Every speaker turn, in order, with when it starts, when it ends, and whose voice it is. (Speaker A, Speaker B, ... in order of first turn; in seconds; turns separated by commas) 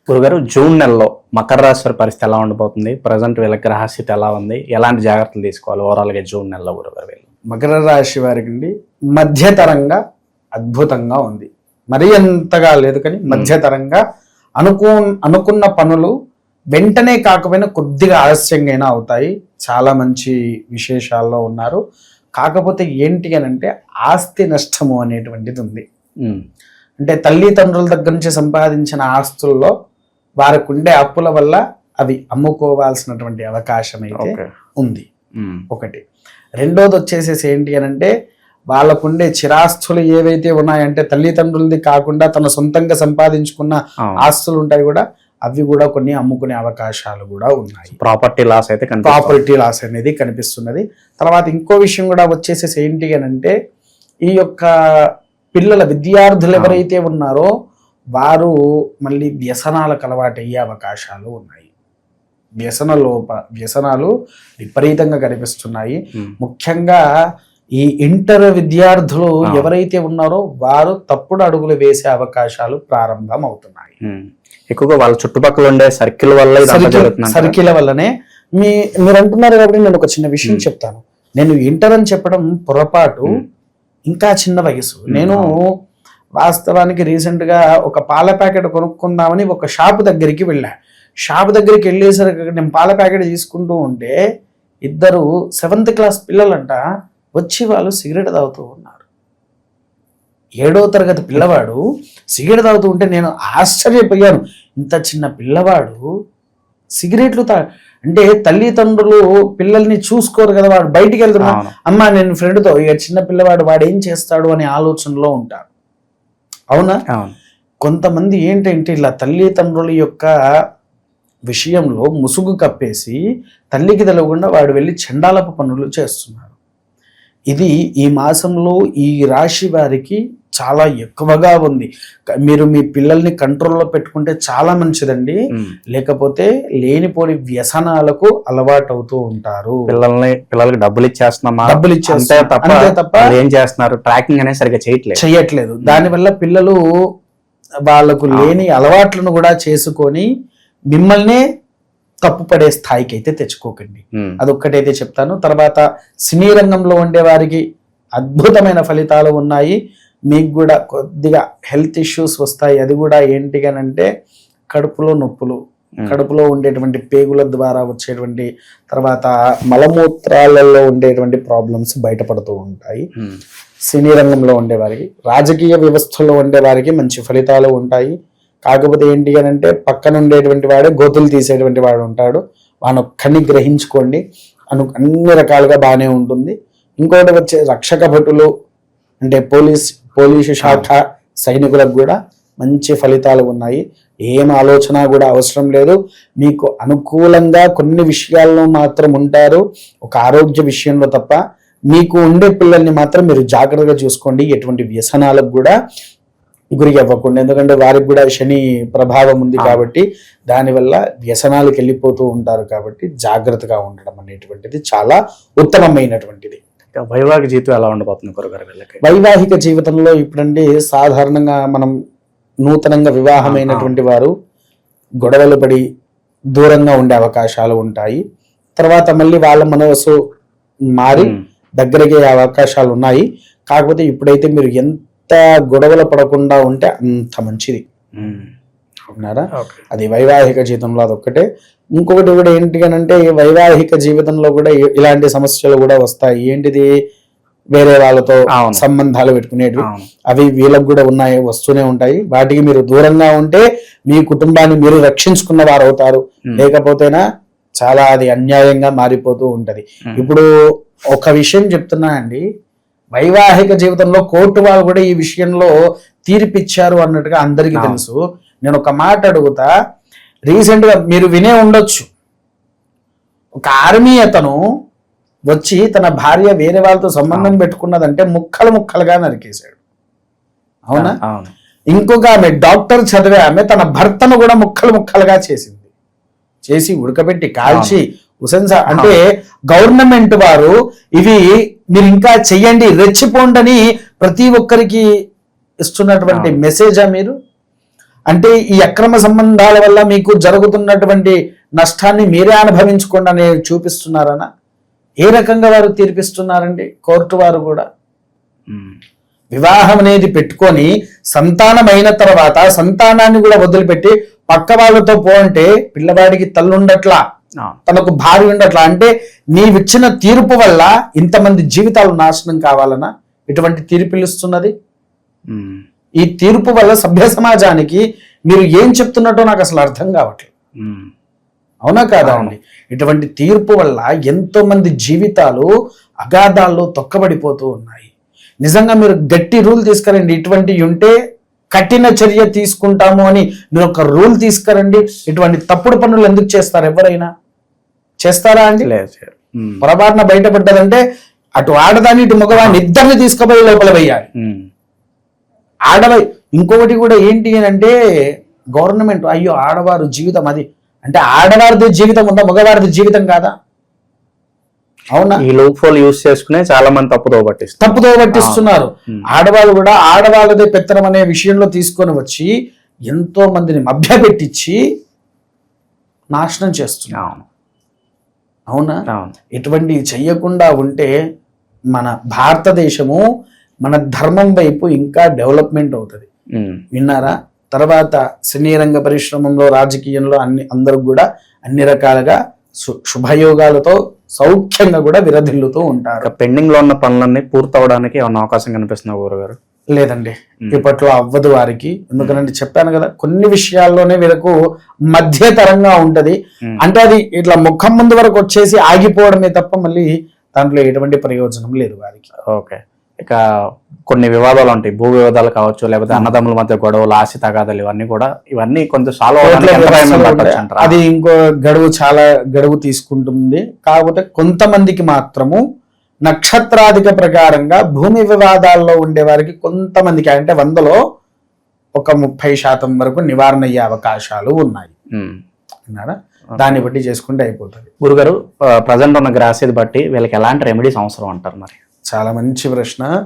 Speaker A: 0.1-7.3, Speaker B: 7.5-10.0, Speaker B: 10.6-14.0, Speaker B: 14.6-16.1, Speaker B: 16.8-21.8, Speaker B: 22.4-25.8, Speaker B: 27.0-29.7, Speaker B: 30.4-35.0, Speaker A: 34.2-34.5, Speaker A: 35.4-35.6, Speaker B: 35.7-36.0, Speaker B: 36.6-38.1, Speaker B: 38.7-48.0, Speaker A: 48.0-49.4, Speaker B: 49.0-53.5, Speaker B: 54.3-54.7, Speaker B: 55.5-57.5, Speaker B: 58.2-58.5, Speaker B: 59.0-61.7, Speaker B: 62.6-67.0, Speaker B: 67.8-74.0, Speaker A: 74.0-77.6, Speaker B: 76.6-83.4, Speaker B: 84.1-85.6, Speaker A: 85.1-85.5, Speaker B: 86.4-90.7, Speaker B: 91.3-94.2, Speaker B: 94.9-96.8, Speaker B: 97.4-99.0, Speaker B: 100.6-101.8, Speaker B: 102.3-106.0, Speaker B: 107.0-115.7, Speaker A: 111.5-111.7, Speaker B: 117.8-120.3, Speaker B: 121.5-123.2, Speaker B: 123.7-126.5, Speaker B: 127.5-131.9, Speaker B: 132.4-135.4, Speaker B: 135.9-139.8, Speaker A: 139.9-145.2, Speaker B: 141.7-143.3, Speaker B: 145.2-146.8, Speaker B: 147.9-150.3, Speaker B: 150.9-151.4, Speaker B: 152.3-157.6, Speaker B: 158.2-159.8, Speaker B: 160.3-164.1, Speaker B: 164.7-173.1, Speaker B: 173.9-178.1, Speaker B: 178.7-184.2, Speaker B: 184.7-188.5, Speaker B: 189.2-201.4, Speaker A: 190.6-190.9, Speaker B: 201.9-205.7, Speaker B: 206.8-216.6, Speaker A: 217.0-219.0, Speaker B: 219.0-221.9, Speaker B: 222.7-224.3, Speaker A: 223.4-223.9, Speaker B: 225.2-225.8, Speaker B: 226.6-228.2, Speaker B: 228.8-230.1, Speaker B: 231.0-237.8, Speaker A: 238.2-238.5, Speaker B: 239.2-241.4, Speaker A: 239.6-239.8, Speaker B: 242.0-246.9, Speaker B: 247.8-257.2, Speaker A: 248.6-248.8, Speaker A: 249.8-250.1, Speaker B: 257.8-260.4, Speaker B: 261.1-262.4, Speaker B: 263.2-265.7, Speaker B: 266.3-269.7, Speaker A: 267.8-268.0, Speaker B: 270.5-272.1, Speaker B: 273.6-274.6, Speaker B: 275.5-279.8, Speaker B: 280.9-281.2, Speaker A: 280.9-281.5, Speaker B: 281.9-285.9, Speaker B: 286.7-289.2, Speaker A: 287.7-288.0, Speaker B: 289.7-295.0, Speaker B: 295.9-297.3, Speaker B: 298.3-304.5, Speaker B: 305.2-307.9, Speaker A: 308.7-309.0, Speaker B: 309.5-317.2, Speaker B: 317.9-324.7, Speaker A: 325.5-325.8, Speaker B: 326.2-330.5, Speaker A: 330.8-331.1, Speaker B: 331.9-335.7, Speaker A: 332.2-332.5, Speaker B: 336.2-338.1, Speaker B: 338.6-341.1, Speaker B: 341.8-347.3, Speaker B: 348.2-348.9, Speaker A: 348.9-349.8, Speaker B: 349.8-351.0, Speaker B: 351.6-354.3, Speaker A: 352.5-352.8, Speaker A: 354.4-354.7, Speaker B: 355.9-357.9, Speaker B: 358.8-363.5, Speaker B: 365.1-365.4, Speaker A: 365.4-369.2, Speaker B: 367.8-372.5, Speaker B: 373.1-374.8, Speaker B: 376.3-377.3, Speaker A: 377.2-377.4, Speaker B: 378.7-379.0, Speaker B: 379.6-381.1, Speaker B: 381.9-383.2, Speaker B: 383.9-386.3, Speaker A: 386.6-386.8, Speaker B: 386.9-396.3, Speaker A: 396.2-399.6, Speaker B: 399.9-404.6, Speaker B: 405.1-412.3, Speaker A: 412.5-413.4, Speaker A: 414.1-421.0, Speaker B: 419.4-425.6, Speaker B: 426.3-431.0, Speaker B: 432.0-434.9, Speaker B: 435.9-437.9, Speaker A: 438.0-441.8, Speaker B: 442.1-443.1